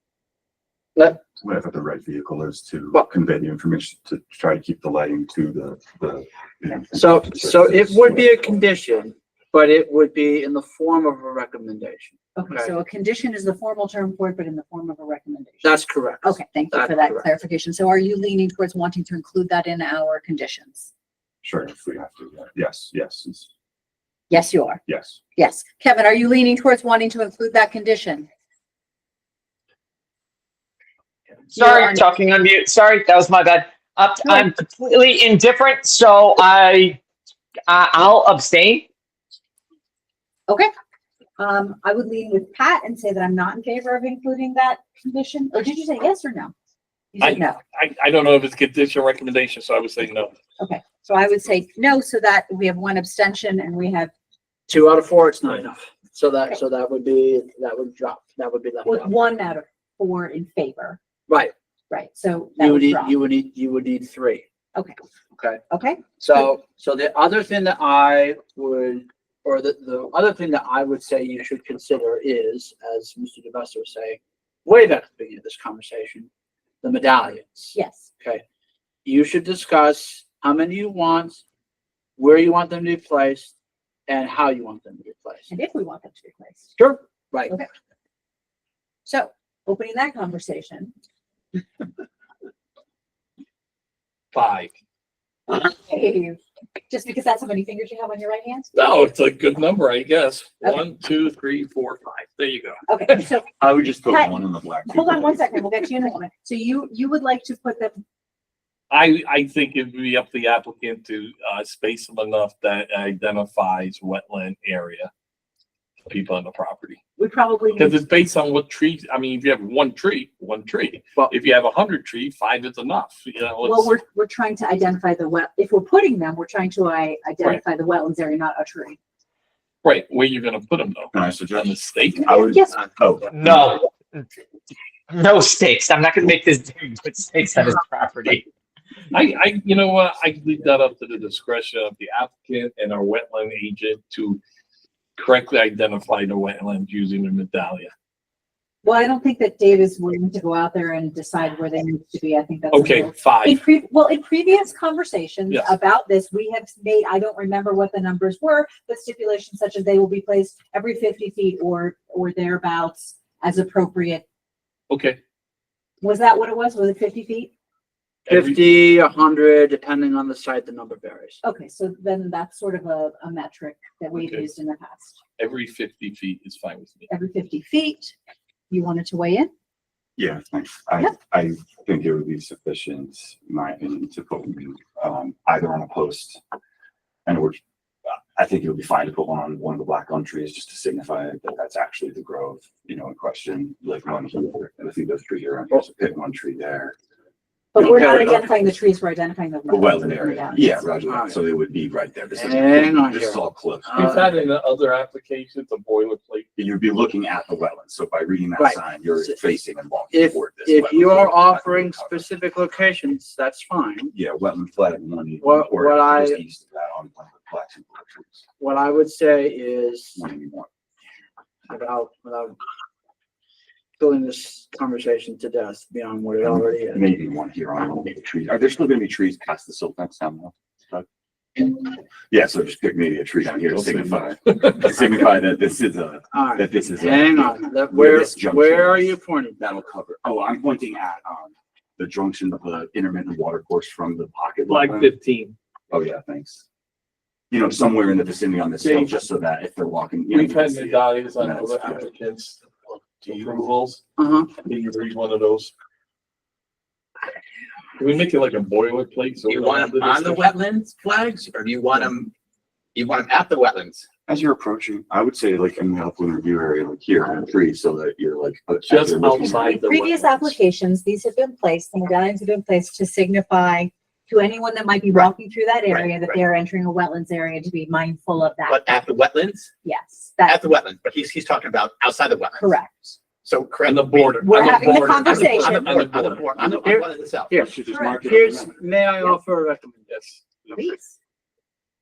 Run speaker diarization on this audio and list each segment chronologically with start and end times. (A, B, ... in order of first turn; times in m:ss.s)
0:01.2-0:08.3 A
0:07.0-0:12.8 B
0:12.4-0:20.9 C
0:15.6-0:17.2 B
0:21.4-0:23.5 A
0:24.3-0:24.8 C
0:24.9-0:25.2 A
0:25.4-0:28.3 C
0:31.5-0:32.1 C
0:31.5-0:37.0 D
0:34.2-0:34.5 C
0:37.7-0:38.9 D
0:41.4-0:46.5 C
0:47.1-0:47.6 C
0:47.2-0:50.3 E
0:50.6-0:54.1 C
0:54.7-0:59.1 B
0:58.8-1:01.0 C
1:01.9-1:03.1 C
1:02.6-1:04.4 B
1:05.3-1:05.6 B
1:05.7-1:06.0 C
1:06.2-1:16.3 B
1:16.8-1:18.4 B
1:17.7-1:18.1 C
1:19.0-1:21.4 B
1:22.2-1:23.5 B
1:24.1-1:25.5 B
1:25.5-1:26.7 C
1:26.8-1:27.5 B
1:29.0-1:30.9 C
1:34.3-1:34.7 E
1:35.5-1:38.7 C
1:38.7-1:42.8 E
1:42.9-1:43.5 C
1:43.6-1:45.6 A
1:44.0-1:44.4 C
1:44.9-1:48.0 C
1:48.9-1:55.1 E
1:56.0-1:57.0 E
1:57.2-1:58.0 C
1:57.8-2:03.9 E
2:03.6-2:09.0 C
2:09.8-2:12.4 E
2:11.1-2:13.8 A
2:12.2-2:12.8 C
2:13.3-2:13.8 D
2:15.1-2:18.4 D
2:19.1-2:24.4 E
2:25.2-2:27.9 E
2:28.8-2:44.2 C
2:32.7-2:33.6 E
2:44.9-2:45.2 E
2:46.0-2:47.5 C
2:48.3-2:48.6 E
2:48.3-2:51.4 B
2:51.4-2:55.2 C
2:54.1-2:54.4 E
2:55.4-2:57.1 E
2:57.1-2:58.1 C
2:58.7-2:59.5 C
3:00.2-3:06.4 A
3:07.2-3:17.0 A
3:17.7-3:20.6 C
3:17.8-3:18.4 A
3:17.8-3:18.4 B
3:19.7-3:24.2 A
3:21.1-3:21.4 B
3:22.4-3:24.3 B
3:24.0-3:26.5 E
3:26.6-3:32.3 A
3:28.6-3:29.4 B
3:30.1-3:34.1 B
3:34.1-3:38.4 A
3:35.4-3:36.4 B
3:38.6-3:40.2 B
3:40.2-3:40.7 A
3:41.7-3:42.6 B
3:44.0-3:47.0 B
3:46.4-3:51.1 A
3:51.6-4:05.1 A
3:53.7-3:54.7 E
3:56.3-3:59.6 B
4:04.7-4:05.5 E
4:05.9-4:06.6 A
4:07.5-4:12.1 A
4:08.8-4:09.2 E
4:10.3-4:14.0 E
4:14.2-4:14.5 B
4:14.6-4:15.7 E
4:18.0-4:20.5 E
4:19.5-4:22.3 F
4:22.9-4:24.0 F
4:24.3-4:29.7 A
4:28.8-4:30.5 E
4:29.4-4:38.8 C
4:35.9-4:36.4 F
4:38.7-4:39.7 F
4:39.8-4:40.6 C
4:40.4-4:42.7 F
4:42.6-4:43.2 C
4:43.4-4:47.5 F
4:43.8-4:46.8 E
4:44.4-4:45.9 C
4:46.8-4:50.1 B
4:47.5-4:48.8 A
4:47.9-4:48.2 C
4:50.1-4:50.4 E
4:50.7-4:51.2 C